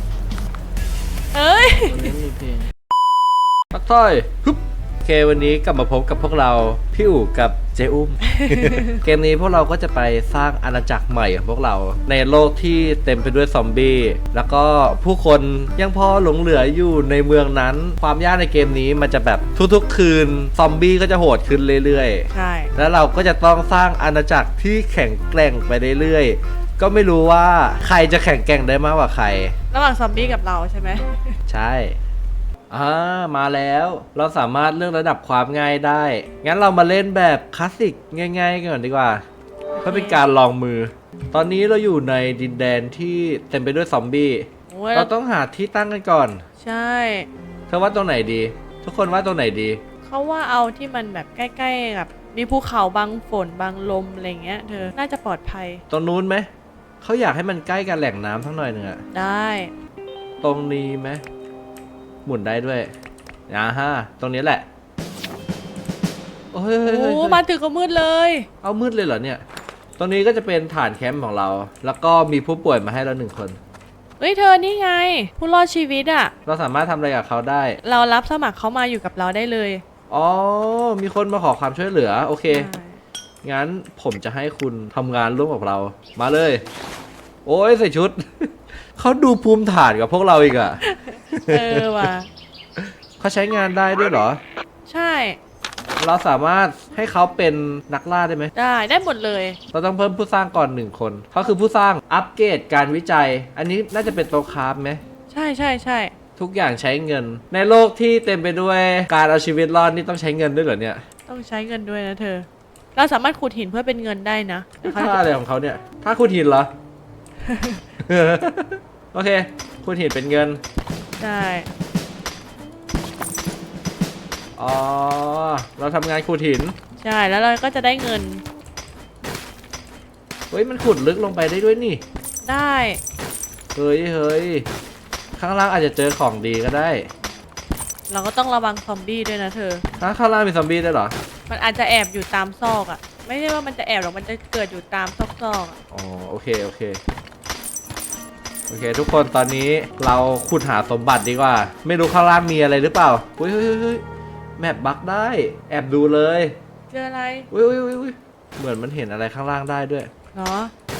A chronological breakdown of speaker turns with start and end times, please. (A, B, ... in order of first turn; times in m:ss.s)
0:01.3-0:02.2 A
0:01.7-0:02.7 B
0:03.7-0:29.6 B
0:08.3-0:09.0 A
0:22.3-0:22.7 A
0:29.7-0:31.4 A
0:31.5-0:32.0 B
0:32.7-0:39.2 B
0:39.8-0:40.2 A
0:39.8-0:46.4 B
0:44.7-0:45.1 A
0:46.6-0:47.3 A
0:47.7-0:49.8 B
0:50.0-0:55.8 A
0:55.9-0:56.5 B
0:57.0-0:59.0 B
0:59.1-0:59.7 A
1:00.4-1:01.2 B
1:02.2-1:02.9 B
1:03.5-1:04.6 B
1:06.5-1:07.4 B
1:06.8-1:08.5 A
1:08.6-1:09.4 B
1:10.0-1:13.6 B
1:14.2-1:16.3 A
1:16.5-1:17.8 B
1:17.8-1:19.8 A
1:20.1-1:22.7 B
1:22.5-1:23.0 A
1:23.4-1:26.6 B
1:27.5-1:30.8 B
1:30.8-1:32.3 A
1:31.3-1:32.1 B
1:32.8-1:34.4 B
1:34.9-1:35.4 A
1:36.0-1:38.5 B
1:38.6-1:39.6 A
1:39.7-1:45.0 B
1:45.3-1:46.1 A
1:46.4-1:51.0 B
1:51.3-1:55.2 A
1:54.8-1:56.7 B
1:57.4-1:57.8 A
1:58.0-2:00.6 B
2:01.2-2:01.7 A
2:04.6-2:06.8 B
2:07.0-2:08.4 A
2:10.5-2:12.0 B
2:12.4-2:13.0 A
2:13.8-2:14.7 B
2:15.4-2:17.1 B
2:18.1-2:19.8 A
2:20.0-2:21.2 B
2:21.5-2:25.8 A
2:25.9-2:27.0 B
2:28.7-2:34.0 B
2:34.6-2:36.6 B
2:36.9-2:37.5 A
2:37.5-2:40.1 B
2:40.3-2:40.7 A